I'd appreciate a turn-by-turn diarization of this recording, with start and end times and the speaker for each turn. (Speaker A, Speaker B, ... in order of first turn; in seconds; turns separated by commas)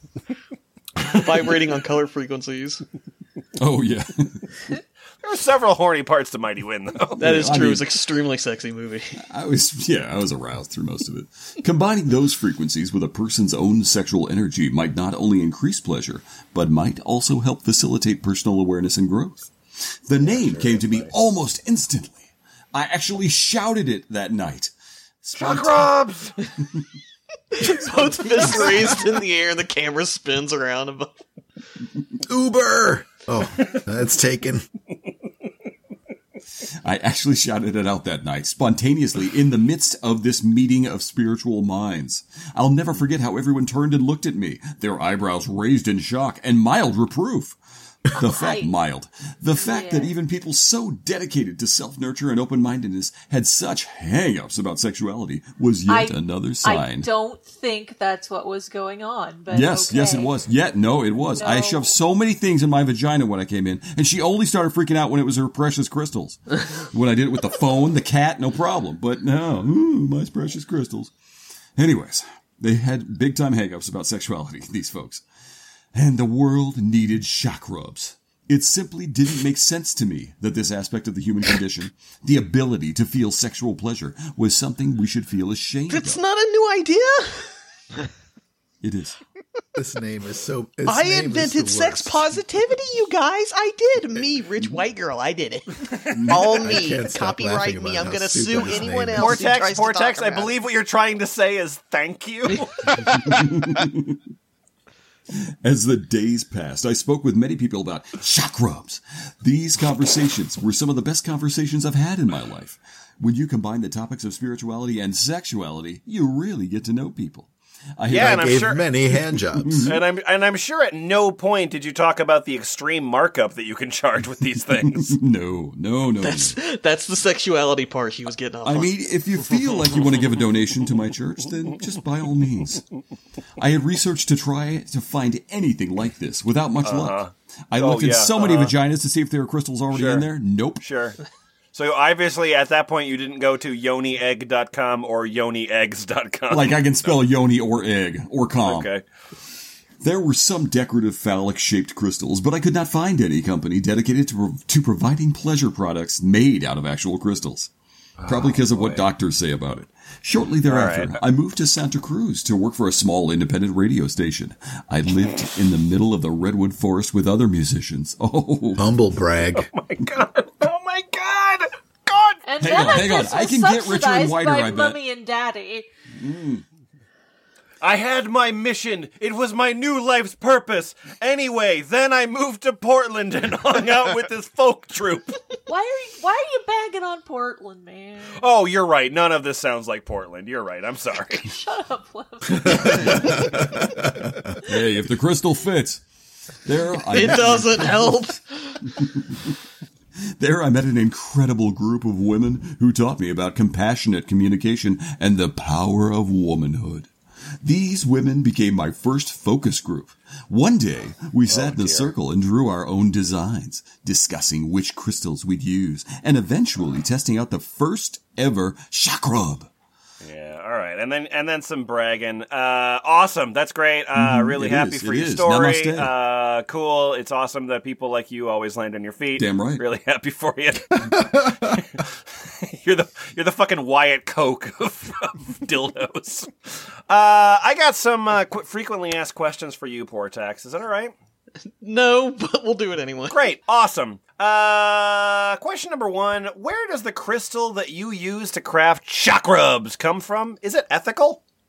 Speaker A: 1.0-2.8, Speaker B: 3.6-4.5, Speaker C: 5.2-7.2, Speaker B: 7.2-7.9, Speaker A: 7.2-9.2, Speaker B: 9.2-19.5, Speaker B: 20.1-25.9, Speaker C: 20.2-21.1, Speaker C: 25.4-26.3, Speaker A: 27.5-31.2, Speaker D: 32.2-34.6, Speaker B: 36.8-47.6, Speaker B: 48.1-57.1, Speaker E: 48.2-48.7, Speaker E: 49.5-50.1, Speaker E: 55.9-60.3, Speaker B: 59.5-71.1, Speaker E: 61.4-61.9, Speaker B: 71.8-75.2, Speaker B: 75.9-86.2, Speaker A: 85.9-87.5, Speaker B: 88.8-89.2, Speaker D: 89.8-92.2, Speaker A: 90.8-100.5, Speaker B: 96.1-96.7, Speaker D: 96.6-99.4, Speaker C: 99.2-103.3, Speaker B: 103.0-104.2, Speaker B: 105.6-118.5, Speaker C: 118.1-118.8, Speaker D: 118.1-119.9, Speaker B: 119.5-120.0, Speaker C: 119.8-125.2, Speaker B: 124.8-126.6, Speaker A: 126.2-129.1, Speaker B: 128.6-132.8, Speaker B: 133.6-140.9, Speaker C: 136.8-138.8, Speaker C: 139.9-140.3, Speaker C: 140.8-141.2, Speaker C: 141.7-147.2, Speaker B: 146.5-148.9, Speaker C: 148.6-149.0, Speaker B: 150.0-157.7, Speaker C: 158.2-159.1, Speaker B: 158.2-168.8, Speaker C: 160.7-161.2, Speaker D: 168.8-169.7, Speaker C: 169.5-173.0, Speaker E: 172.4-175.9, Speaker B: 172.6-175.0, Speaker B: 176.1-176.6, Speaker C: 177.8-185.4, Speaker E: 185.7-188.4, Speaker C: 188.3-191.5, Speaker E: 191.4-193.0, Speaker B: 192.6-193.9, Speaker B: 194.5-196.0, Speaker B: 196.6-198.2, Speaker A: 197.1-198.8, Speaker B: 198.9-199.5, Speaker B: 200.4-207.1, Speaker B: 207.6-219.7, Speaker C: 211.5-212.1, Speaker C: 220.2-231.4, Speaker B: 224.1-226.1, Speaker B: 229.4-229.8, Speaker C: 232.6-241.1, Speaker A: 241.8-243.4, Speaker C: 243.3-251.4